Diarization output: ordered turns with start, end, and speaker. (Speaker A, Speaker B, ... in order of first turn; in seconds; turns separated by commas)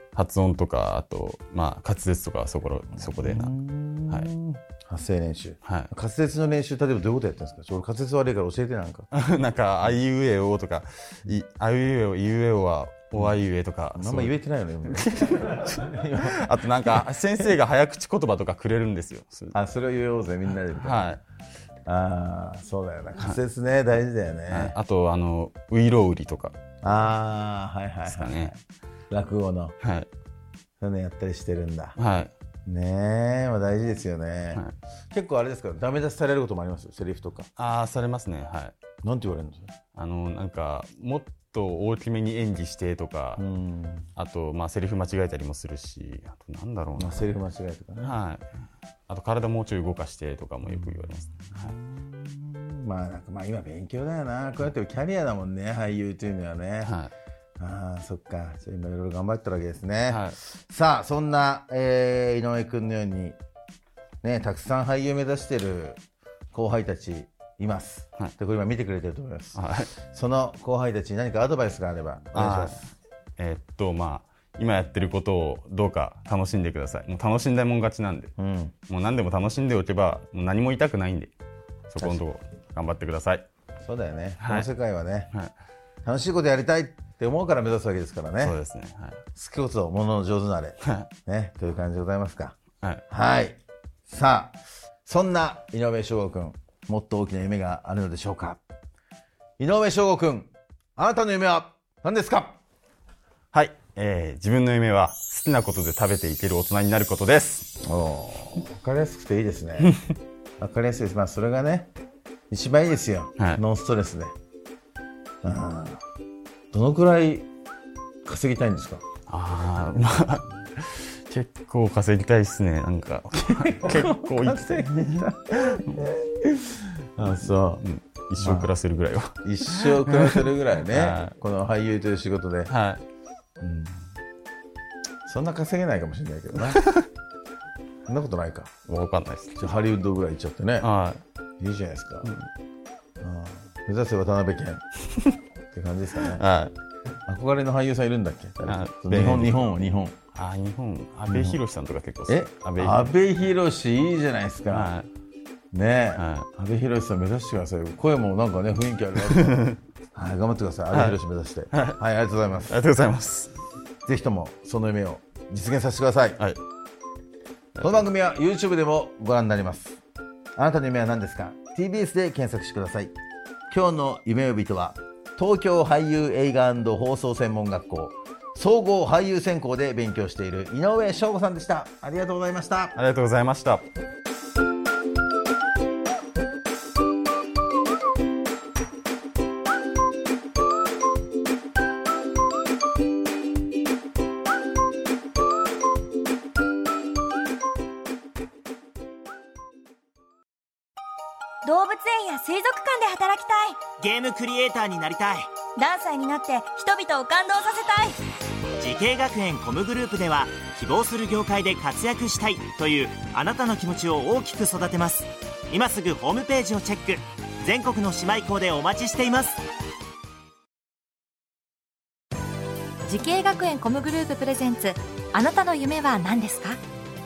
Speaker A: 0.1-3.5, Speaker B: 3.2-9.1, Speaker A: 5.7-5.9, Speaker A: 9.1-19.6, Speaker B: 13.9-16.4, Speaker B: 19.5-21.2, Speaker A: 20.8-21.2, Speaker B: 21.9-24.8, Speaker A: 24.5-26.6, Speaker B: 26.8-28.6, Speaker A: 28.1-28.5, Speaker B: 29.1-29.8, Speaker A: 29.8-30.1, Speaker B: 30.8-32.0, Speaker A: 32.0-32.3, Speaker B: 32.7-37.5, Speaker A: 37.6-38.8, Speaker B: 39.0-39.7, Speaker A: 40.0-43.4, Speaker B: 43.4-44.1, Speaker A: 44.2-47.3, Speaker B: 47.0-48.2, Speaker A: 48.0-48.5, Speaker A: 49.1-51.8, Speaker B: 50.8-57.0, Speaker A: 56.8-57.1, Speaker B: 57.6-63.4, Speaker A: 60.1-60.4, Speaker B: 64.2-66.0, Speaker B: 66.5-72.9, Speaker A: 69.5-69.9, Speaker A: 72.3-78.3, Speaker B: 78.4-78.7, Speaker A: 78.9-81.3, Speaker A: 81.9-83.5, Speaker B: 83.8-85.3, Speaker A: 84.4-84.7, Speaker B: 86.0-88.6, Speaker A: 88.4-89.2, Speaker B: 89.3-92.6, Speaker B: 93.1-98.6, Speaker B: 99.6-102.6, Speaker A: 103.5-107.7, Speaker B: 107.8-110.0, Speaker B: 110.6-111.9, Speaker B: 112.5-114.3, Speaker B: 115.4-116.0, Speaker B: 116.7-117.5, Speaker B: 118.2-119.0, Speaker A: 119.3-126.1, Speaker B: 123.6-127.8, Speaker A: 127.8-131.3, Speaker B: 128.4-128.7, Speaker B: 129.4-132.7, Speaker A: 132.7-133.0, Speaker B: 133.6-134.0, Speaker B: 135.3-136.9, Speaker B: 138.1-138.8, Speaker A: 138.9-139.7, Speaker B: 139.6-140.9, Speaker A: 140.8-141.2, Speaker B: 141.6-142.3, Speaker B: 143.2-144.8, Speaker B: 145.7-146.4, Speaker A: 146.3-146.7, Speaker B: 147.3-150.2, Speaker A: 148.7-149.7, Speaker A: 150.3-153.1, Speaker B: 151.3-151.6, Speaker B: 152.3-154.9, Speaker A: 154.7-155.1, Speaker B: 155.7-162.8, Speaker A: 156.2-156.5, Speaker A: 159.5-159.8, Speaker A: 160.9-161.2, Speaker A: 161.7-162.0, Speaker A: 162.7-163.6, Speaker B: 164.1-166.4, Speaker A: 167.8-168.1, Speaker B: 167.8-170.0, Speaker B: 170.6-173.1, Speaker B: 173.7-183.0, Speaker A: 182.9-183.9, Speaker C: 201.6-203.8, Speaker D: 204.0-205.5, Speaker C: 205.8-208.2, Speaker D: 208.8-219.6, Speaker E: 223.1-226.8